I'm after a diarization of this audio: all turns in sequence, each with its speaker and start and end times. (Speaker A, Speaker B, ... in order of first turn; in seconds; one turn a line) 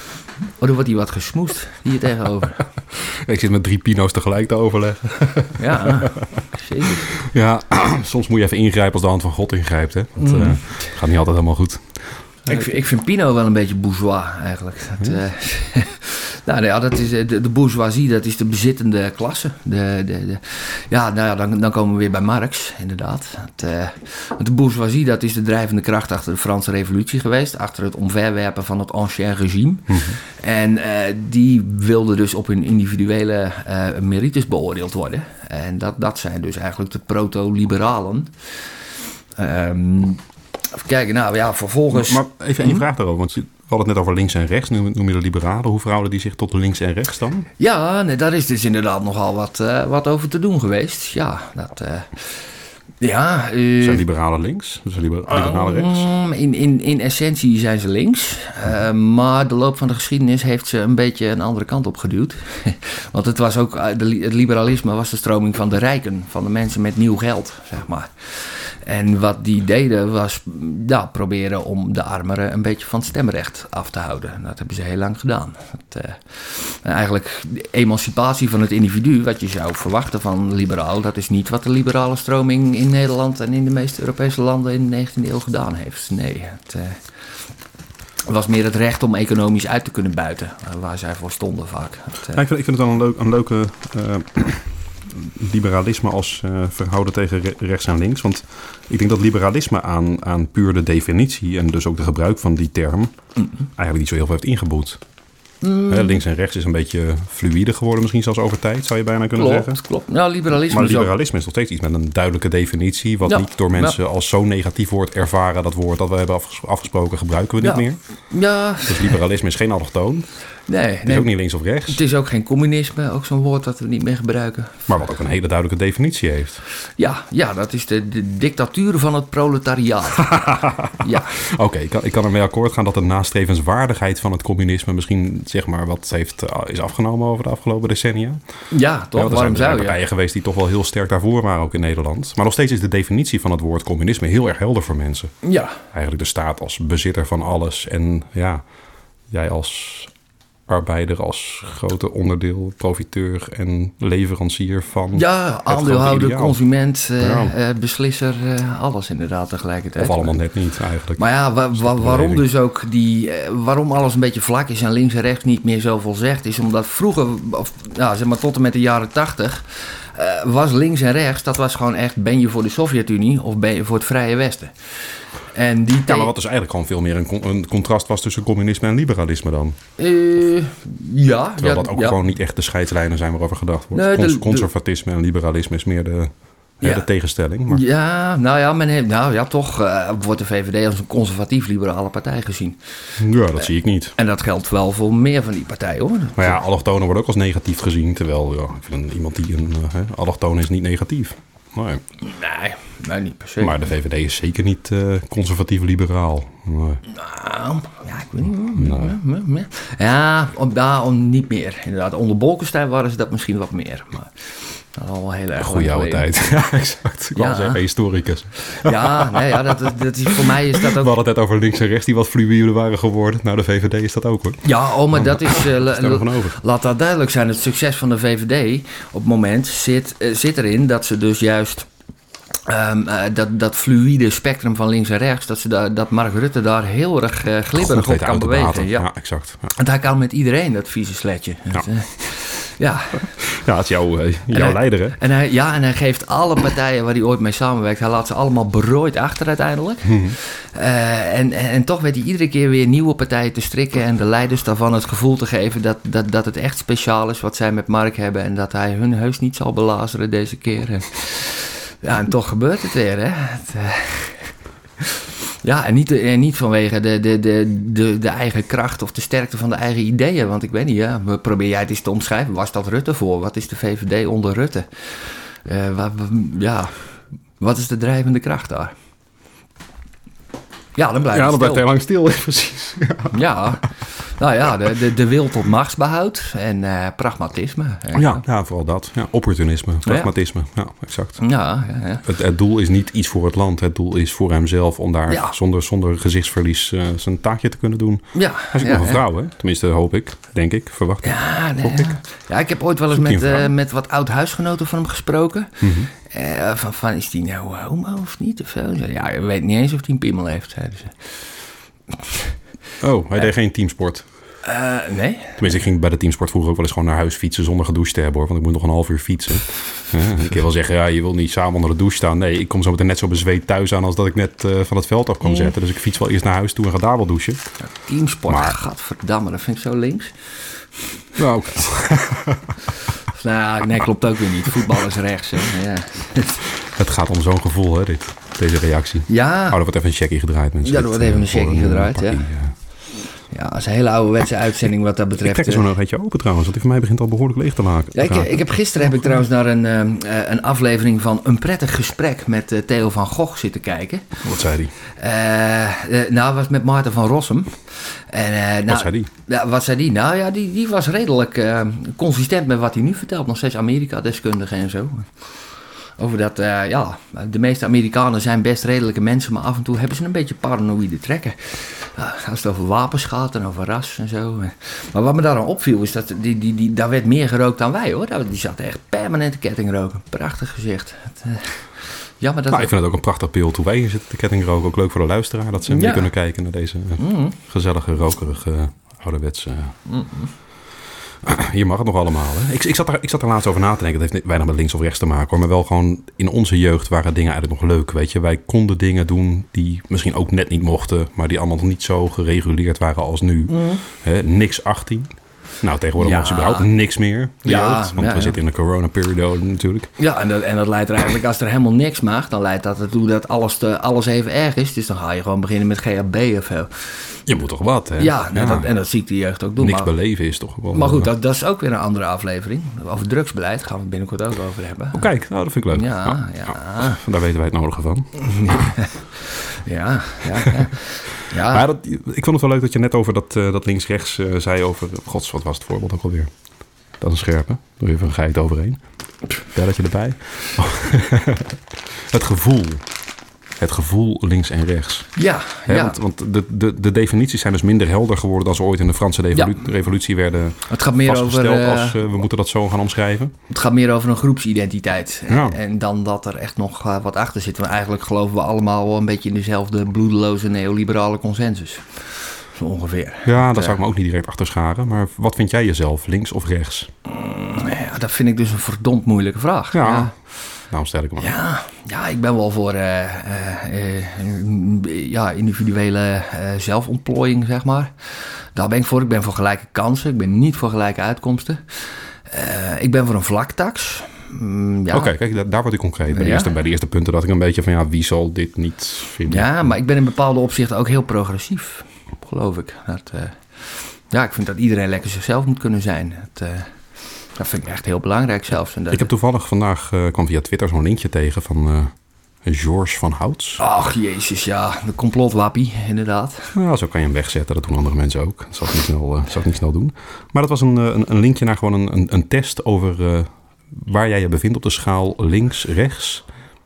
Speaker A: 0.6-2.6
Speaker B: 2.9-6.2
Speaker A: 5.6-7.1
Speaker B: 7.1-12.6
Speaker A: 10.2-10.6
Speaker A: 12.4-38.3
Speaker B: 29.9-30.1
Speaker A: 39.4-42.8
Speaker B: 41.9-47.5
Speaker A: 47.6-52.4
Speaker A: 53.0-54.0
Speaker B: 53.8-56.1
Speaker A: 55.3-87.0
Speaker A: 88.2-92.4
Speaker B: 92.3-103.1
Speaker B: 103.7-105.0
Speaker A: 105.6-106.2
Speaker B: 105.9-109.8
Speaker A: 109.3-111.1
Speaker B: 110.7-118.0
Speaker A: 113.2-114.0
Speaker A: 117.6-119.2
Speaker B: 118.8-120.3
Speaker A: 120.7-121.3
Speaker B: 121.0-122.0
Speaker A: 121.8-124.9
Speaker B: 124.9-126.6
Speaker A: 127.0-131.4
Speaker B: 130.3-138.4
Speaker A: 138.7-140.0
Speaker B: 139.1-148.6
Speaker A: 145.4-145.8
Speaker B: 149.3-150.1
Speaker B: 150.7-156.6
Speaker A: 155.1-160.3
Speaker B: 157.2-157.5
Speaker B: 160.0-162.4
Speaker A: 161.2-174.7
Speaker A: 175.5-176.3
Speaker B: 176.0-179.8
Speaker A: 180.0-182.2
Speaker B: 181.6-187.8
Speaker A: 183.9-184.7
Speaker A: 187.7-192.8
Speaker B: 193.2-194.1
Speaker A: 193.6-196.6
Speaker B: 196.3-202.0
Speaker A: 202.2-203.8
Speaker B: 203.6-207.0
Speaker A: 207.1-216.3
Speaker B: 208.8-209.2
Speaker B: 215.6-226.6
Speaker A: 217.3-217.8
Speaker A: 218.6-221.1
Speaker A: 224.6-231.9
Speaker A: 232.7-239.1
Speaker B: 237.8-239.7
Speaker A: 239.7-243.3
Speaker B: 243.2-245.2
Speaker A: 244.5-276.9
Speaker B: 250.1-250.3
Speaker A: 277.6-278.9
Speaker A: 280.9-281.9
Speaker B: 281.3-283.4
Speaker A: 283.3-288.4
Speaker B: 288.1-291.4
Speaker A: 291.4-292.2
Speaker B: 292.2-302.1
Speaker A: 295.3-295.5
Speaker A: 298.3-299.2
Speaker A: 301.2-311.1
Speaker B: 303.1-303.7
Speaker B: 305.8-306.1
Speaker B: 313.0-314.2
Speaker A: 314.6-315.6
Speaker B: 315.6-327.6
Speaker A: 327.8-330.3
Speaker B: 328.5-328.8
Speaker B: 331.4-332.8
Speaker A: 333.3-336.6
Speaker B: 336.8-342.7
Speaker A: 339.3-339.8
Speaker A: 340.8-342.4
Speaker A: 343.5-345.9
Speaker B: 345.4-348.6
Speaker A: 348.1-354.4
Speaker B: 354.4-354.9
Speaker A: 355.1-365.3
Speaker B: 358.9-359.3
Speaker A: 366.2-381.8
Speaker A: 382.4-382.9
Speaker B: 382.7-389.9
Speaker A: 385.9-386.3
Speaker A: 387.2-387.6
Speaker A: 390.1-390.5
Speaker B: 391.4-410.1
Speaker A: 403.7-404.0
Speaker A: 406.2-406.9
Speaker A: 407.6-408.6
Speaker A: 410.2-417.3
Speaker B: 417.5-418.9
Speaker A: 418.2-420.1
Speaker B: 419.8-421.3
Speaker A: 420.9-425.3
Speaker B: 425.1-428.9
Speaker A: 425.9-427.2
Speaker A: 428.4-429.1
Speaker A: 429.6-431.9
Speaker B: 431.5-436.5
Speaker B: 437.2-439.0
Speaker B: 439.7-443.0
Speaker B: 443.8-445.3
Speaker A: 445.4-446.2
Speaker B: 445.9-453.5
Speaker A: 450.9-452.2
Speaker A: 453.7-462.2
Speaker B: 455.5-455.8
Speaker A: 462.7-464.0
Speaker B: 463.4-467.1
Speaker A: 467.2-470.3
Speaker B: 469.9-470.3
Speaker B: 470.9-471.5
Speaker A: 471.4-478.1
Speaker A: 478.7-485.3
Speaker B: 485.1-489.9
Speaker A: 486.3-486.7
Speaker A: 489.5-496.9
Speaker A: 497.5-499.3
Speaker B: 499.1-502.1
Speaker B: 502.6-503.8
Speaker A: 503.8-506.7
Speaker B: 506.7-516.4